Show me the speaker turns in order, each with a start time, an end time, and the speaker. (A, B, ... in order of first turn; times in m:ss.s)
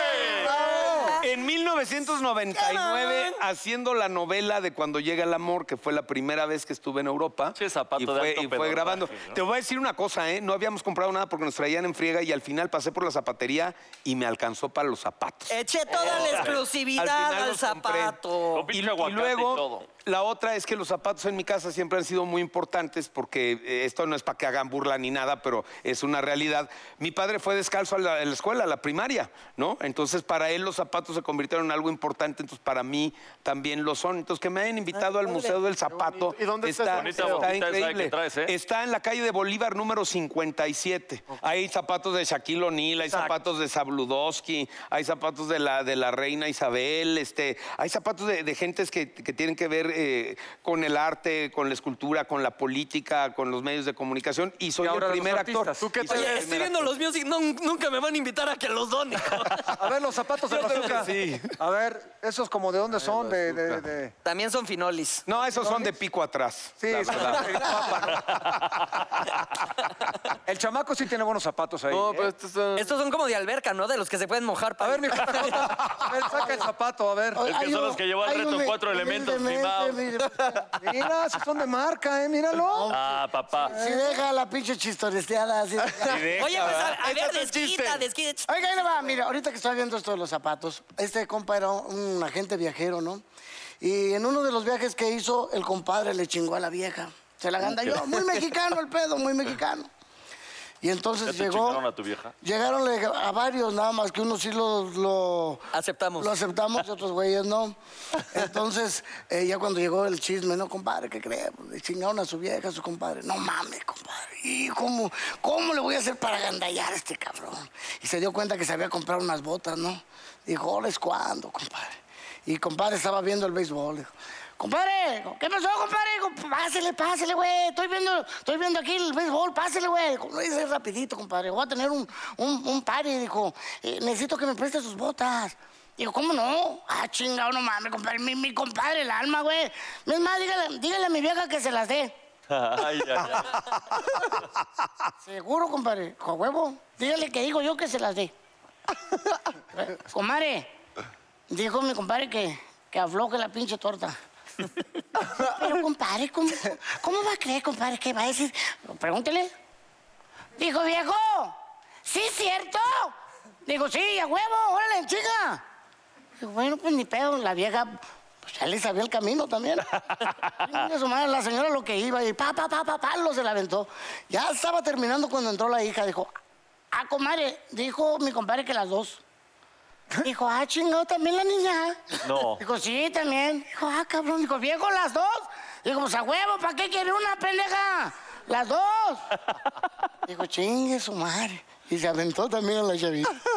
0:00.5-0:01.3 A
0:00.5-0:01.0 B
0:01.2-0:18.2 C
0:02.5-0:03.4 A
0:07.6-0:09.4 D
0:15.5-0:18.6 A
0:15.9-0:16.6 D
0:18.5-0:19.8 D
0:18.7-0:56.9 C
0:35.3-0:37.5 E
0:36.9-0:38.5 D
0:54.8-0:56.0 B
0:55.8-0:56.5 E
0:56.1-0:59.8 A
0:59.7-1:04.1 B
1:00.5-1:01.1 A
1:03.0-1:03.8 E
1:04.2-1:05.2 A
1:05.3-1:07.8 C
1:05.6-1:05.9 B
1:06.8-1:08.6 B
1:10.4-1:12.3 B
1:11.9-1:12.9 E
1:12.8-1:15.8 A
1:14.8-1:17.4 B
1:17.3-1:20.6 F
1:17.4-1:20.3 D
1:20.8-1:22.9 B
1:22.7-1:26.3 F
1:22.9-1:23.7 D
1:23.6-1:24.2 B
1:26.0-1:28.1 E
1:26.0-1:26.7 B
1:26.4-1:28.5 A
1:28.5-1:33.2 F
1:33.8-1:39.9 F
1:40.8-1:41.8 F
1:41.2-1:42.3 D
1:42.4-1:45.7 F
1:45.7-1:46.4 A
1:46.2-1:47.8 F
1:48.3-2:22.2 F
2:22.5-2:23.6 D
2:25.2-2:28.3 F
2:29.8-2:30.7 F
2:31.5-2:34.2 F
2:35.2-2:39.5 F
2:40.6-2:43.2 F
2:43.7-2:45.6 F
2:46.4-2:56.3 F
2:56.9-2:59.2 F
3:00.2-3:09.3 F
3:02.2-3:02.6 D
3:10.2-3:13.4 F